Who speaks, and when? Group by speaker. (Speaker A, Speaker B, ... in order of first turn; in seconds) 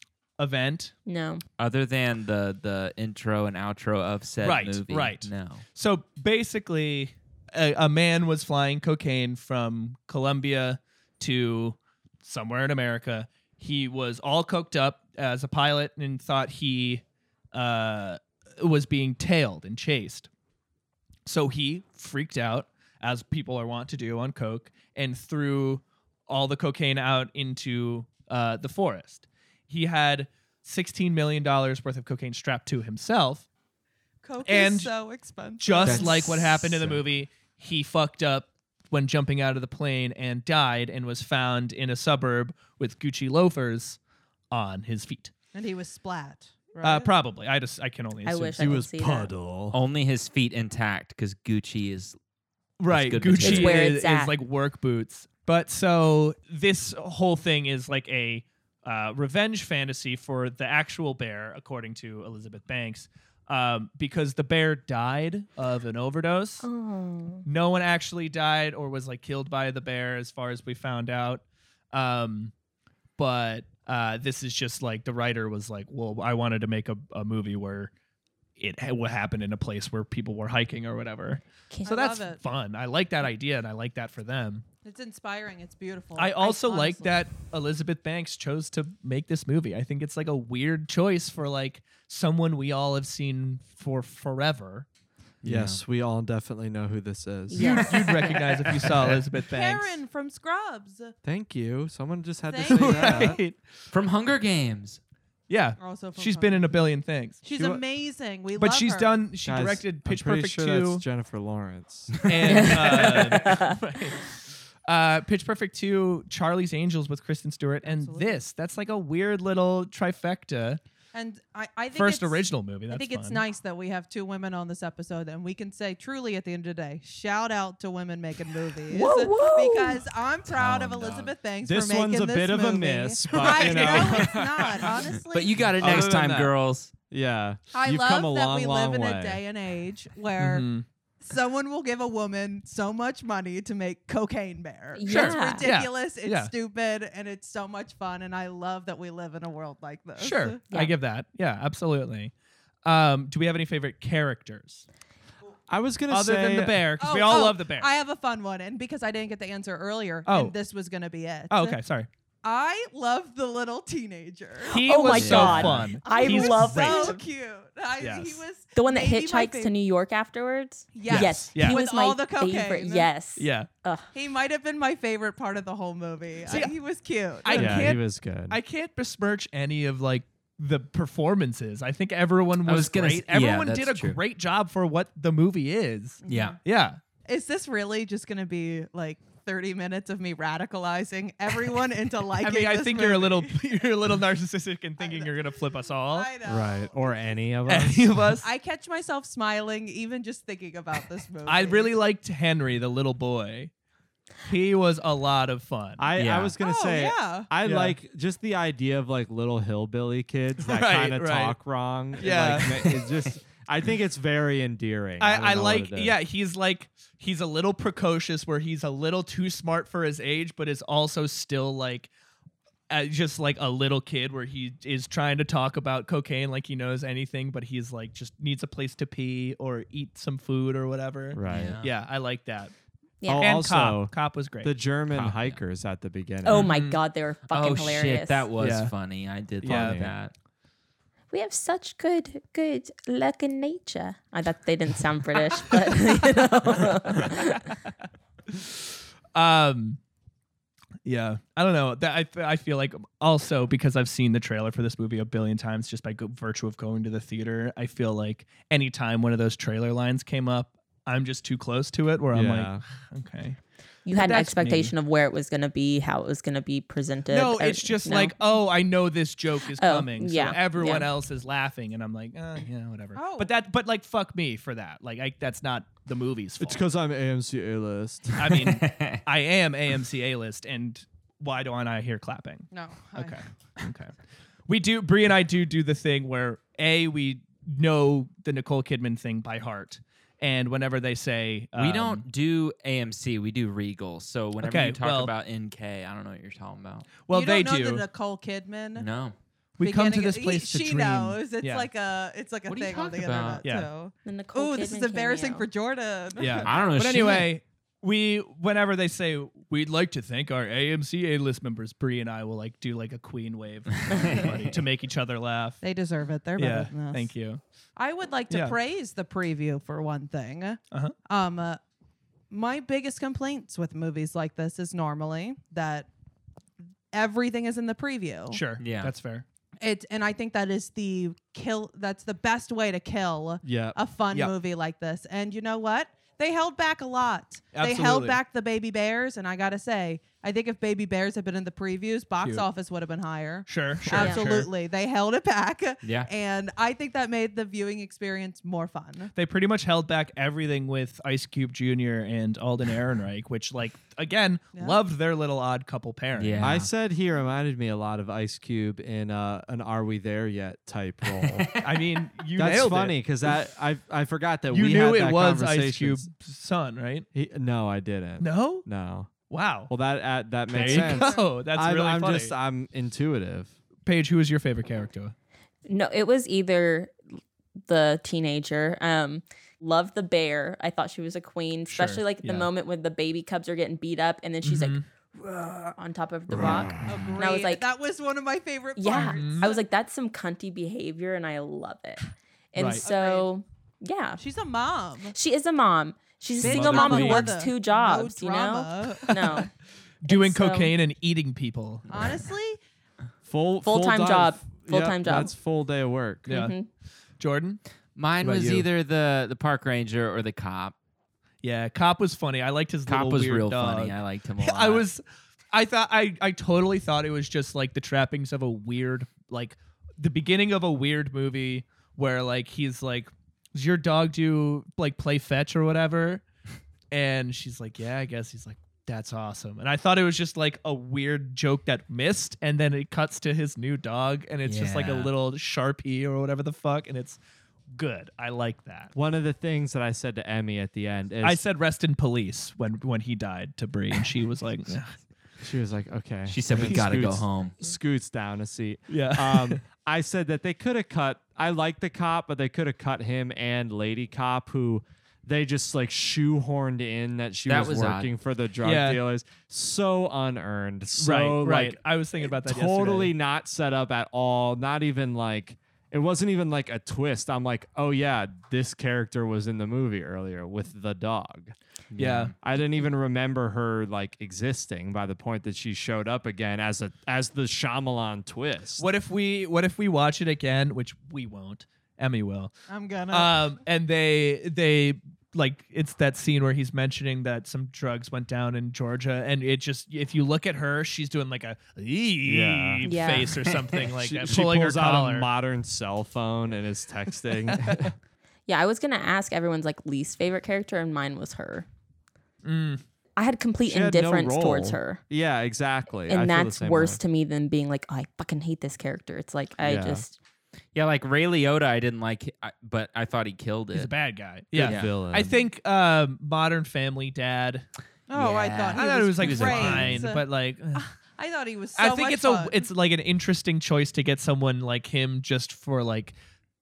Speaker A: 0.4-0.9, 4.4-20.3, 21.2-33.5, 34.4-34.9, 35.6-44.0, 44.5-45.3, 46.8-48.7, 52.8-66.7, 67.4-72.5, 73.2-77.9, 78.6-84.6, 86.2-94.9, 97.6-100.0, 102.7-103.6, 105.5-107.4, 108.6-111.0, 112.2-120.8, 121.9-123.4, 133.3-134.7, 135.8-136.5, 140.4-140.8, 145.0-146.5, 150.2-152.3, 152.8-154.8, 156.1-157.9, 160.2-160.5, 161.5-162.1, 164.6-167.2, 168.0-168.4, 171.1-171.8, 173.3-173.7, 176.5-176.7, 177.4-187.0, 192.4-196.3, 197.7-198.5, 201.4-203.7, 204.4-206.1, 207.6-207.9, 210.6-211.6, 212.2-213.1, 215.2-222.1, 222.9-232.7, 233.4-234.8, 236.4-237.0, 238.6-238.9, 239.6-240.0, 249.3-250.0, 251.0-263.6, 264.1-264.9, 267.3-276.8, 278.4-284.1, 284.7-292.2, 294.6-295.3, 297.3-298.1, 299.8-301.9, 303.6-303.9, 306.4-315.8, 316.6-317.6, 318.5-318.8, 328.5-329.4, 337.7-338.4, 343.7-344.7, 349.3-356.7, 361.8-363.2, 364.7-367.2, 368.4-368.9, 369.5-369.9, 370.7-372.5, 374.1-375.3, 381.9-382.7, 384.6-385.0, 389.1-389.7, 392.7-393.0, 396.6-397.6, 400.2-402.3, 406.5-406.8, 407.4-407.8, 408.4-408.9, 411.6-426.4, 427.1-437.4, 437.9-439.1, 441.4-445.1, 449.1-449.8, 458.8-459.2, 461.2-463.3, 472.2-472.5, 479.0-482.7, 483.3-495.5, 497.7-498.0, 502.6-503.0, 513.9-517.8, 518.9-521.0, 522.0-526.3
Speaker B: 1.1-1.4, 48.2-49.3, 53.4-54.4, 66.6-67.4, 81.7-82.0, 97.5-98.5, 112.5-113.8, 128.9-130.0, 144.9-145.7, 164.7-167.2, 168.7-174.1, 233.2-233.6, 236.4-238.5, 241.3-247.7, 264.0-268.3, 269.7-271.1, 304.2-305.7, 314.1-314.5, 344.1-344.4, 375.9-377.1, 377.9-387.8, 388.9-394.4, 395.3-399.7, 400.2-400.9, 403.8-405.5, 406.4-406.9, 493.0-493.5, 498.7-501.9, 503.4-505.2, 506.3-510.4
Speaker C: 1.6-5.6, 35.8-37.0, 49.7-52.2, 52.9-53.9, 95.4-95.8, 103.9-105.0, 112.2-112.6, 130.5-131.3, 135.3-136.9, 165.1-165.9, 182.7-184.2, 186.2-186.6, 206.1-206.5, 231.5-231.9, 235.1-235.6, 237.5-240.3, 278.5-279.2, 291.7-297.1, 298.9-299.3, 302.7-303.6, 306.6-307.5, 314.1-314.6, 328.8-329.1, 346.0-346.3, 356.4-356.9, 361.2-361.8, 387.0-387.3, 408.1-410.9, 413.1-415.1, 434.6-435.3, 446.5-447.8, 457.7-458.3, 472.1-472.5, 510.9-514.1, 514.8-515.1, 518.3-520.3
Speaker D: 34.2-36.4, 45.5-47.1, 81.8-82.4, 84.8-87.2, 99.3-101.1, 102.5-103.4, 105.8-106.8, 107.4-109.2, 117.8-118.4, 121.1-135.7, 137.7-140.7, 141.2-150.6, 157.0-161.8, 162.4-164.8, 166.0-169.7, 170.9-173.1, 174.1-177.9, 186.2-186.6, 187.2-193.6, 195.0-195.4, 196.1-197.2, 198.4-201.9, 206.6-207.5, 273.1-273.5, 282.7-283.4, 297.3-299.1, 299.8-306.7, 315.8-317.3, 317.9-321.8, 322.5-326.1, 327.1-328.6, 329.8-349.3, 354.7-355.0, 370.7-371.4, 387.0-389.8, 393.0-393.5, 394.4-395.3, 396.6-399.5, 402.1-402.8, 482.9-483.6, 518.3-522.9
Speaker E: 48.6-49.8, 95.4-97.8, 98.8-99.2, 101.2-103.4, 107.5-107.8, 109.4-112.2, 131.6-134.8, 135.8-136.1, 137.1-139.4, 155.7-156.8, 177.5-178.6, 196.4-198.2, 206.0-216.1, 231.3-231.8, 233.3-236.7, 239.6-240.1, 262.3-262.8, 276.6-278.5, 333.6-334.0, 356.6-361.7, 362.6-366.3, 367.3-369.3, 369.9-373.7, 396.7-397.3, 403.4-406.5, 439.1-441.6, 445.6-462.0, 462.6-471.7, 472.5-479.0, 492.4-493.1, 494.0-498.1, 503.9-507.2, 509.8-510.2, 514.8-515.5